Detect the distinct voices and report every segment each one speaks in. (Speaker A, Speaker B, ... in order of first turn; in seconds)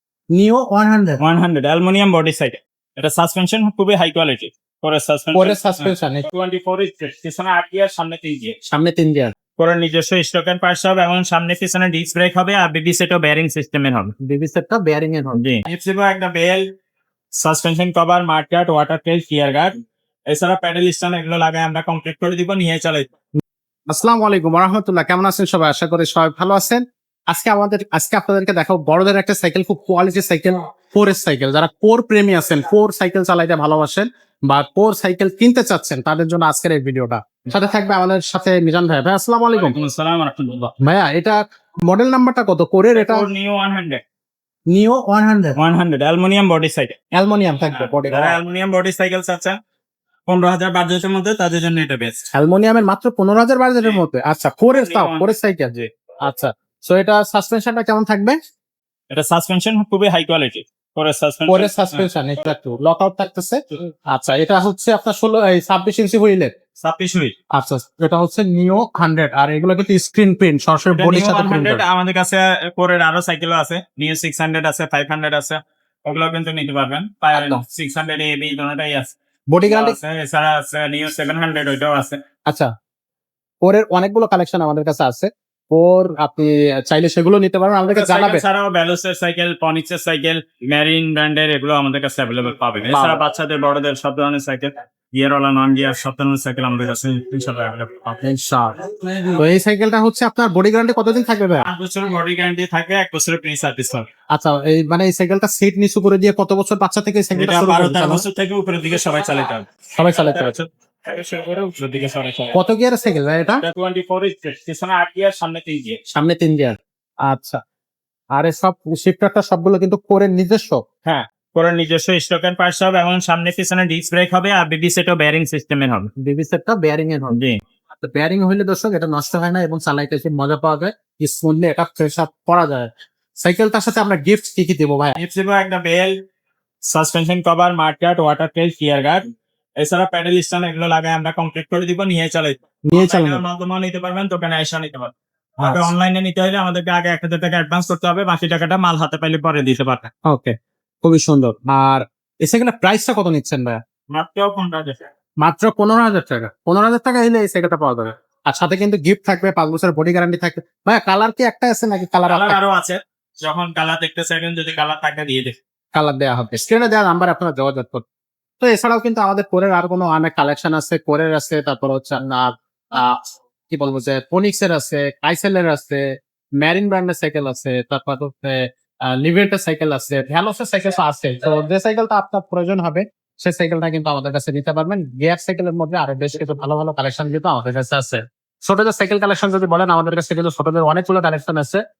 Speaker A: 0.3-1.2, 5.3-6.3, 8.7-9.3, 14.2-15.4, 23.9-39.8, 40.8-43.2, 44.7-45.5, 47.1-48.4, 52.3-58.4, 61.5-66.5, 67.5-71.8, 77.3-77.6, 79.5-80.0, 83.6-88.4, 92.9-93.2, 98.2-101.7, 104.3-108.2, 109.9-110.6, 112.5-113.6, 116.1-117.6, 118.3-120.8, 126.2-127.4, 128.0-132.9, 133.4-135.1, 142.8-143.4, 145.6-145.9, 150.2-153.8, 155.4-162.6, 165.9-168.0, 168.6-176.0, 176.6-191.8
Speaker B: 1.2-8.5, 9.6-14.1, 15.3-16.6, 17.4-19.7, 20.3-23.1, 39.5-40.7, 42.9-44.0, 45.6-47.0, 47.7-49.6, 50.3-52.3, 54.7-55.9, 59.1-62.1, 66.8-67.3, 70.9-79.1, 79.7-82.2, 87.9-98.2, 101.6-104.0, 107.3-112.6, 113.6-116.0, 121.0-126.1, 127.3-127.6, 135.2-136.1, 136.9-139.2, 139.8-150.1, 154.1-155.0, 162.3-165.5